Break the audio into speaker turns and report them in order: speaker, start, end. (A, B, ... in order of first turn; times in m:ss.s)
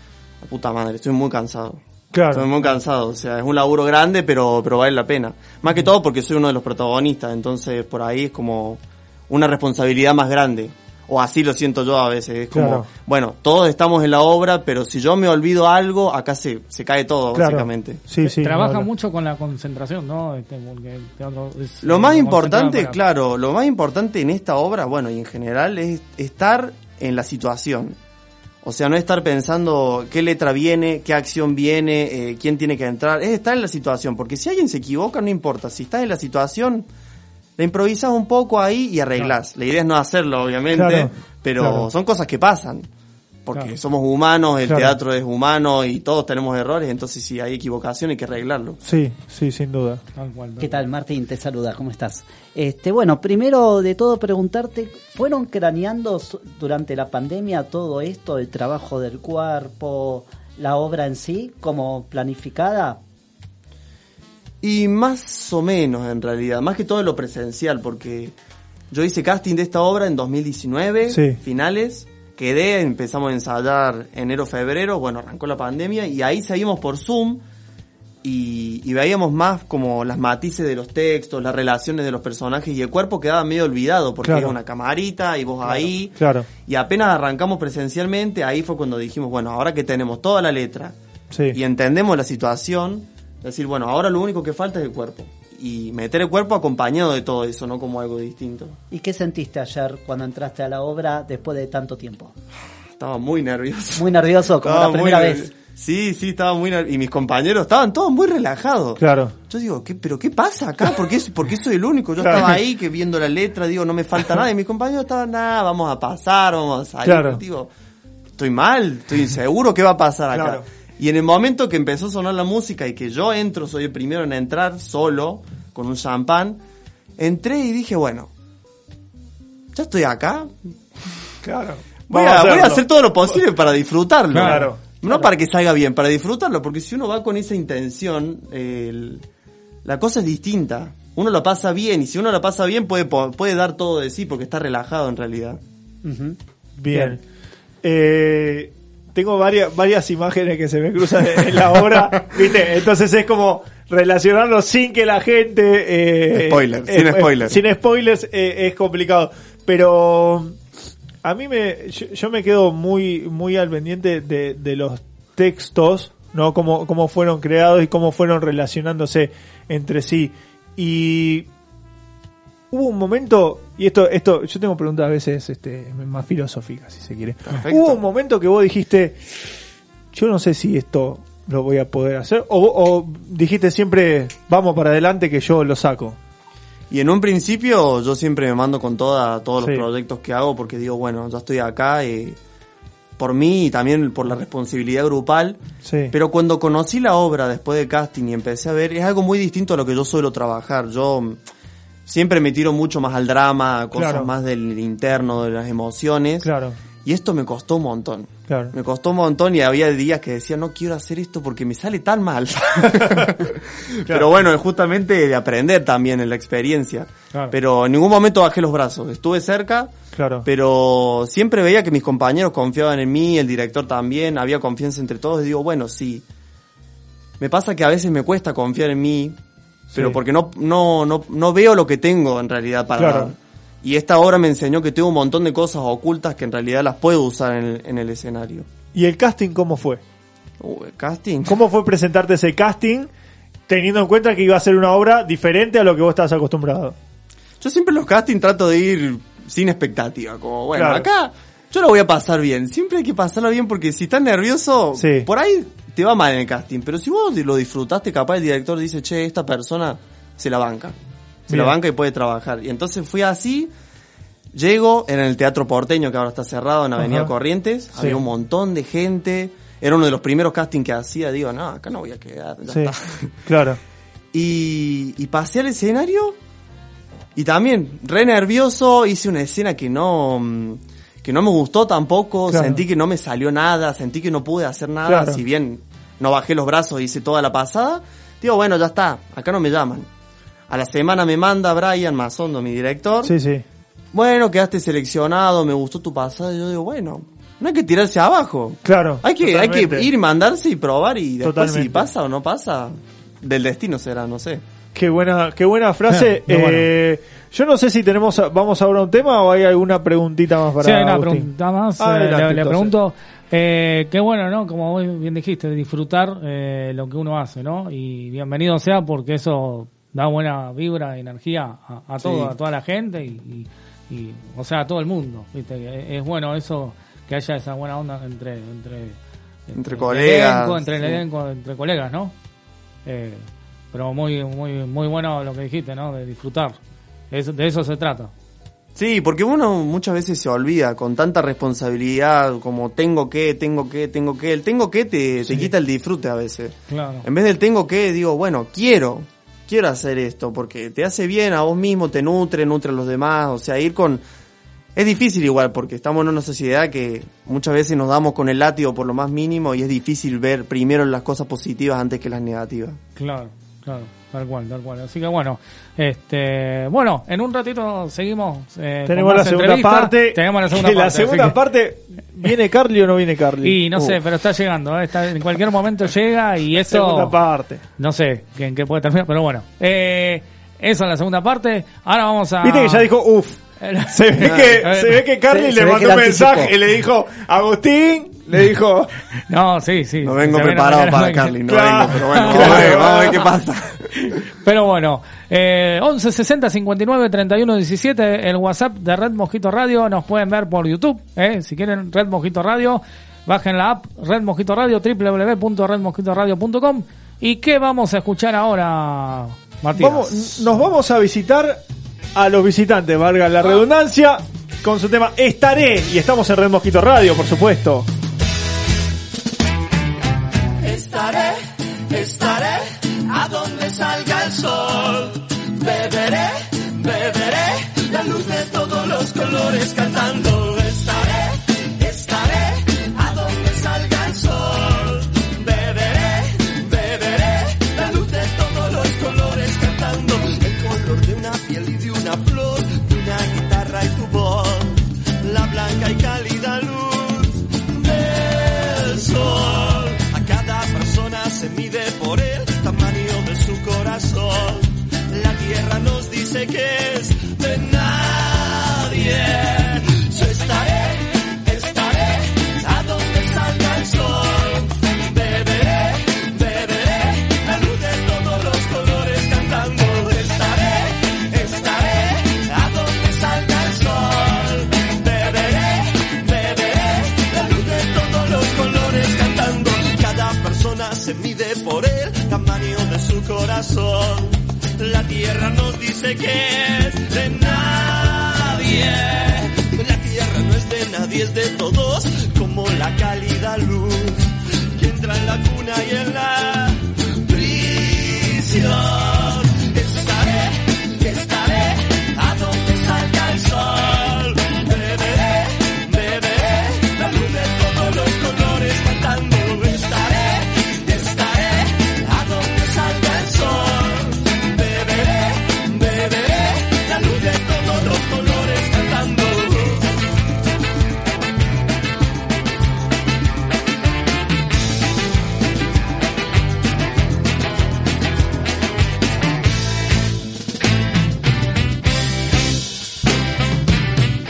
0:00.4-0:18.0 A
0:02.1-0:02.6 B
0:12.5-0:12.9 B
0:17.3-0:18.9 B
0:18.2-0:23.0 C
0:21.8-0:28.0 A
0:28.6-0:36.9 A
0:37.6-0:42.9 A
0:40.7-0:41.9 B
0:43.5-0:48.8 A
0:44.6-0:45.0 B
0:48.8-0:50.0 B
0:50.2-0:50.8 C
0:50.6-1:03.0 D
1:04.6-1:08.4 A
1:08.9-1:17.4 A
1:11.1-1:11.4 B
1:18.2-1:31.0 A
1:24.2-1:24.6 B
1:25.6-1:26.5 B
1:31.3-1:31.6 B
1:31.5-1:38.8 A
1:38.9-1:42.3 D
1:43.0-1:57.7 A
1:44.0-1:45.5 D
1:49.0-1:49.3 B
1:52.2-1:52.6 B
1:57.0-1:57.4 B
1:58.4-2:06.6 A
2:00.3-2:00.6 B
2:07.2-2:08.3 A
2:09.7-2:10.5 A
2:11.4-2:13.4 B
2:12.1-2:19.2 A
2:14.3-2:14.7 C
2:14.4-2:14.8 B
2:19.8-2:25.6 A
2:26.0-2:26.4 D
2:26.8-2:27.2 B
2:27.8-2:40.6 B
2:36.3-2:37.6 A
2:41.2-2:51.5 B
2:52.7-2:59.2 B
2:57.5-2:58.0 A
3:00.1-3:06.2 B
3:06.9-3:12.4 A
3:09.6-3:09.9 B
3:13.2-3:21.4 A
3:15.8-3:16.1 B
3:22.1-3:26.5 A
3:23.9-3:24.3 B
3:26.4-3:26.8 B
3:27.0-3:33.5 A
3:28.5-3:28.7 B
3:33.0-3:33.3 B
3:34.0-3:39.9 A
3:34.1-3:34.4 B
3:40.1-3:40.5 B
3:40.4-3:46.2 A
3:47.4-3:49.4 A
3:49.9-3:50.2 B
3:49.9-3:58.7 A
3:53.0-3:53.3 B
3:58.9-4:00.0 B
4:00.6-4:01.6 A
4:01.5-4:03.1 B
4:03.7-4:07.0 B
4:07.6-4:21.0 A
4:10.7-4:11.1 B
4:15.0-4:15.3 B
4:21.5-4:21.8 B
4:21.5-4:23.7 A
4:24.5-4:33.3 A
4:27.0-4:27.3 B
4:28.0-4:28.2 B
4:32.7-4:32.9 B
4:33.4-4:33.8 B
4:34.3-4:36.4 A
4:37.4-4:50.1 A
4:42.5-4:42.8 B
4:45.0-4:45.4 B
4:50.7-4:53.3 A
4:53.2-4:53.6 B
4:54.1-5:04.6 A
4:58.8-5:00.1 B
5:01.4-5:02.1 B
5:04.9-5:12.9 B
5:06.2-5:06.9 C
5:10.8-5:29.2 C
5:22.2-5:22.5 A
5:29.7-5:32.3 C
5:29.8-5:31.2 A
5:33.0-5:36.8 C
5:37.3-5:38.3 C
5:39.0-5:54.2 A
5:46.9-5:47.3 C
5:55.0-6:03.0 A
6:03.2-6:11.6 C
6:09.1-6:14.2 B
6:13.6-6:17.4 C
6:16.8-6:17.8 B
6:18.0-6:23.1 C
6:22.6-6:23.6 B
6:23.8-6:25.2 C
6:24.1-6:29.1 B
6:24.4-6:24.8 A
6:25.5-6:26.7 D
6:29.5-6:31.6 C
6:30.2-6:34.0 A
6:31.7-6:33.5 B
6:32.3-6:33.2 C
6:34.2-6:50.4 C
6:50.0-6:51.8 B
6:52.4-6:58.1 B
7:00.8-8:40.1 E